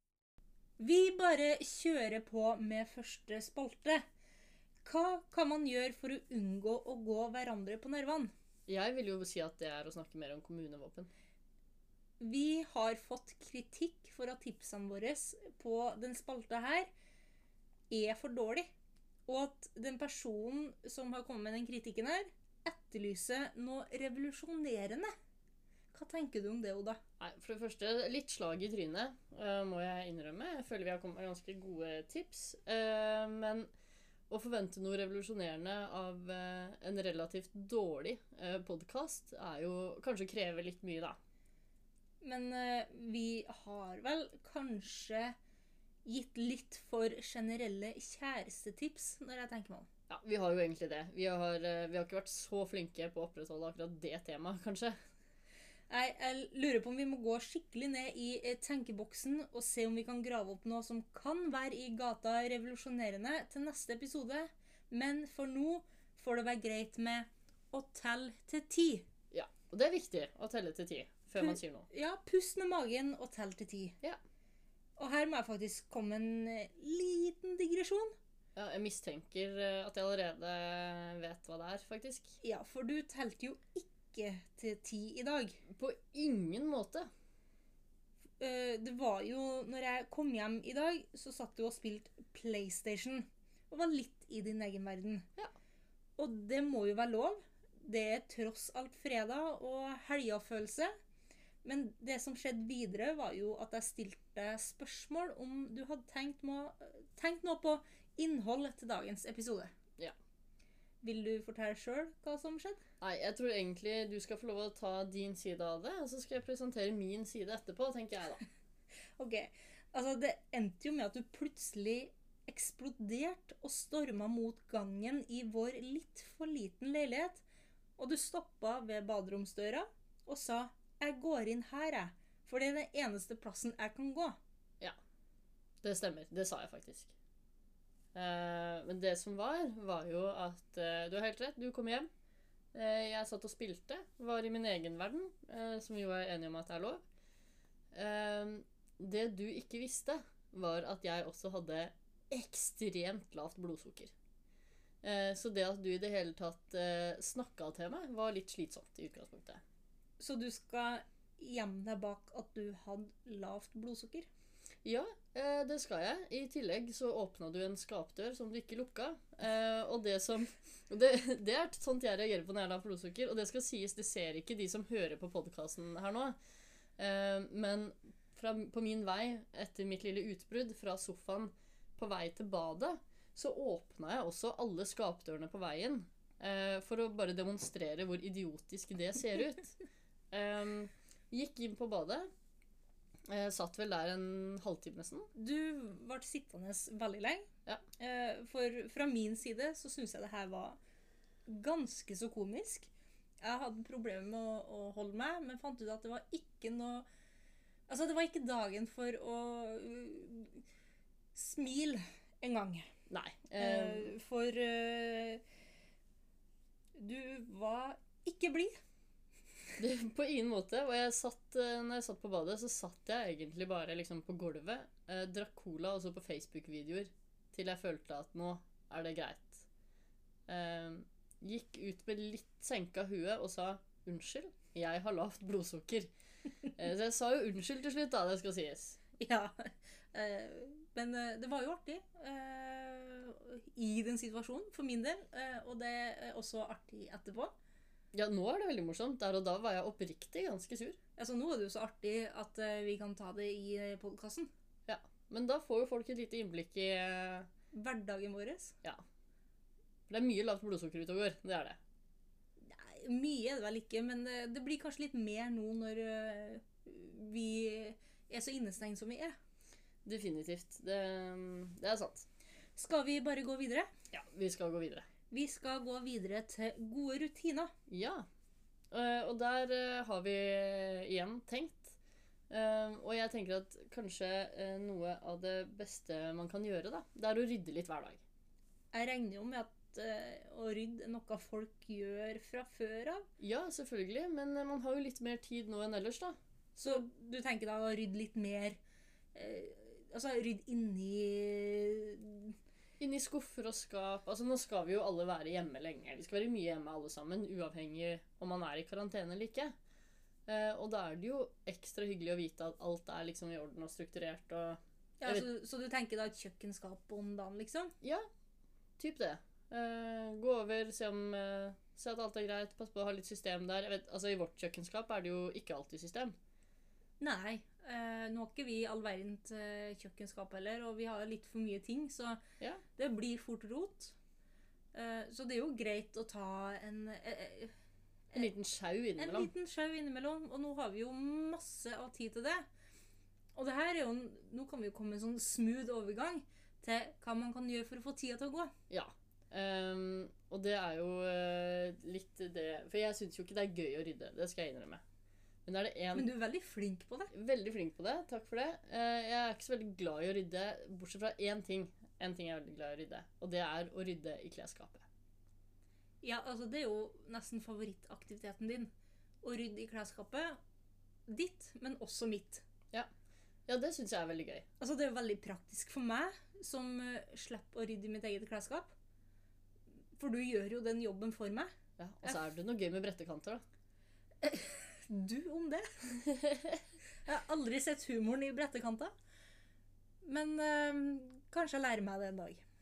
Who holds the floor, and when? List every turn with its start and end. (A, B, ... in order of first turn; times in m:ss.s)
0:00.8-0:04.0 A
0:04.8-0:08.3 A
0:08.7-0:11.1 B
0:12.2-0:16.9 A
0:17.9-0:18.7 A
0:19.3-0:25.1 A
0:25.9-0:27.0 A
0:27.2-0:33.7 B
0:34.3-0:41.2 B
0:42.2-0:45.4 A
0:46.0-0:49.9 A
0:50.1-0:55.0 B
0:55.9-1:09.1 A
1:09.3-1:11.9 B
1:11.4-1:14.0 A
1:15.0-1:18.2 A
1:18.6-1:22.4 B
1:22.4-1:25.6 A
1:25.7-1:27.1 B
1:28.4-1:35.3 A
1:36.2-1:40.9 A
1:41.6-1:49.7 A
1:51.0-1:52.8 A
1:53.0-1:58.4 B
1:59.2-2:07.4 A
2:08.0-2:14.4 A
2:15.8-2:17.1 B
2:18.1-2:22.1 B
2:22.7-2:27.0 B
2:27.9-2:34.1 B
2:35.0-2:39.6 B
2:40.2-2:44.3 A
2:44.8-2:56.4 B
2:57.0-3:09.7 B
3:10.3-3:12.3 B
3:13.3-3:15.3 B
3:15.4-3:20.8 A
3:21.5-3:22.9 A
3:23.4-3:27.1 A
3:27.9-3:30.6 A
3:31.4-3:32.9 A
3:33.1-3:34.2 B
3:33.6-3:35.4 A
3:37.0-3:38.8 A
3:39.8-3:49.7 B
3:50.5-3:56.1 B
3:56.7-3:59.0 B
3:59.2-4:07.5 A
4:08.1-4:11.0 B
4:11.2-4:14.5 A
4:14.9-4:17.5 B
4:17.7-4:18.8 A
4:20.1-4:21.8 B
4:22.6-4:29.4 A
4:30.0-4:32.3 B
4:32.8-4:33.9 A
4:34.1-4:35.1 B
4:35.3-4:37.7 A
4:37.9-4:38.3 B
4:38.9-4:42.0 B
4:42.5-4:48.2 B
4:48.9-4:53.3 A
4:53.4-4:57.0 B
4:56.8-4:58.8 A
4:59.4-5:02.6 A
5:03.0-5:09.7 B
5:10.5-5:15.4 B
5:15.2-5:17.9 A
5:18.0-5:18.3 B
5:19.0-5:26.4 B
5:27.2-5:32.4 A
5:33.0-5:34.2 A
5:34.9-5:37.7 A
5:38.4-5:39.5 B
5:39.2-5:42.7 A
5:43.6-5:48.7 A
5:48.9-5:55.0 B
5:55.6-5:56.3 B
5:56.2-5:57.3 A
5:57.3-6:05.1 B
6:06.2-6:08.9 A
6:09.4-6:10.6 A
6:11.3-6:12.6 A
6:13.7-6:14.6 B
6:14.8-6:18.9 A
6:20.2-6:21.7 A
6:22.0-6:23.6 B
6:24.4-6:26.1 A
6:26.3-6:26.8 B
6:27.2-6:29.1 A
6:30.2-6:32.6 A